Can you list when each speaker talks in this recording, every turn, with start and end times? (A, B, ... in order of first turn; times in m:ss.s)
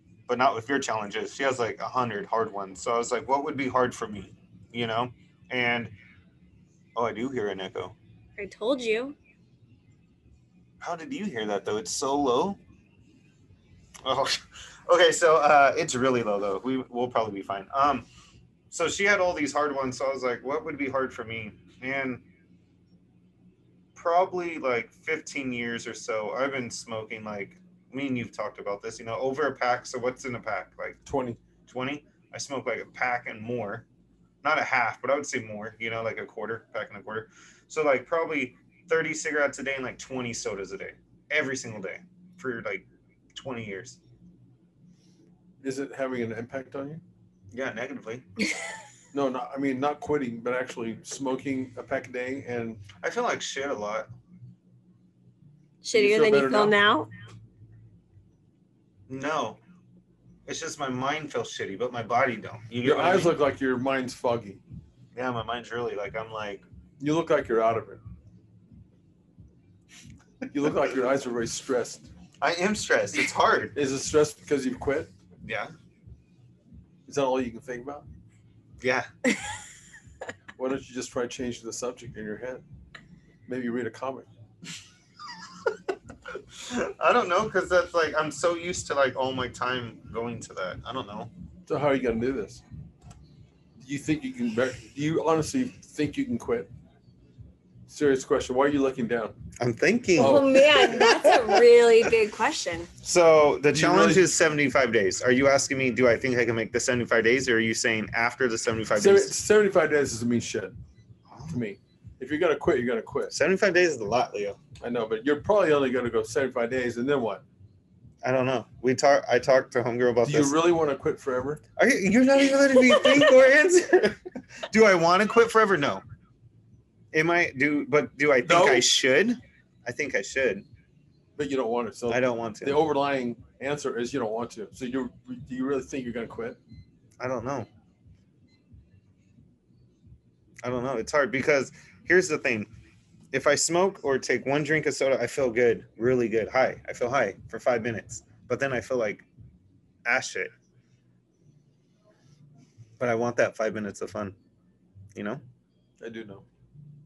0:00.3-0:05.9 A
0:07.0-0:08.0 A
0:08.4-0:09.2 B
0:10.8-0:12.6 A
0:14.0-0:18.1 A
0:18.7-0:22.2 A
0:24.0-0:31.0 A
0:31.0-0:31.4 C
0:31.7-0:33.8 A
0:34.4-0:44.0 A
0:45.6-0:47.0 C
0:47.5-0:48.3 A
0:49.1-0:52.8 C
0:53.0-0:54.1 A
0:55.8-0:57.1 B
0:55.9-0:56.8 C
0:59.1-0:59.6 A
1:00.5-1:03.4 A
1:02.8-1:04.6 C
1:05.1-1:06.6 A
1:07.0-1:08.0 C
1:10.5-1:12.1 C
1:12.4-1:13.8 A
1:13.8-1:15.1 C
1:15.4-1:15.7 A
1:17.1-1:18.1 C
1:18.8-1:19.1 A
1:20.6-1:22.6 C
1:23.5-1:24.3 C
1:26.3-1:31.3 A
1:31.7-1:32.6 C
1:33.8-1:36.7 C
1:37.9-1:39.3 C
1:39.6-1:40.7 A
1:40.2-1:41.6 C
1:40.2-1:42.9 B
1:43.0-1:49.4 A
1:43.7-1:44.3 C
1:49.0-1:50.8 C
1:51.3-1:51.6 A
1:51.5-1:53.3 C
1:53.3-1:54.6 A
1:54.8-1:57.4 C
1:58.2-2:00.6 A
2:00.2-2:01.6 C
2:01.8-2:06.0 A
2:07.1-2:10.6 A
2:08.4-2:08.9 C
2:11.4-2:16.6 C
2:12.1-2:12.8 A
2:17.2-2:17.7 A
2:20.6-2:22.7 A
2:23.3-2:29.2 A
2:30.0-2:30.5 A
2:33.0-2:34.4 A
2:35.2-2:35.4 A
2:36.0-2:36.4 C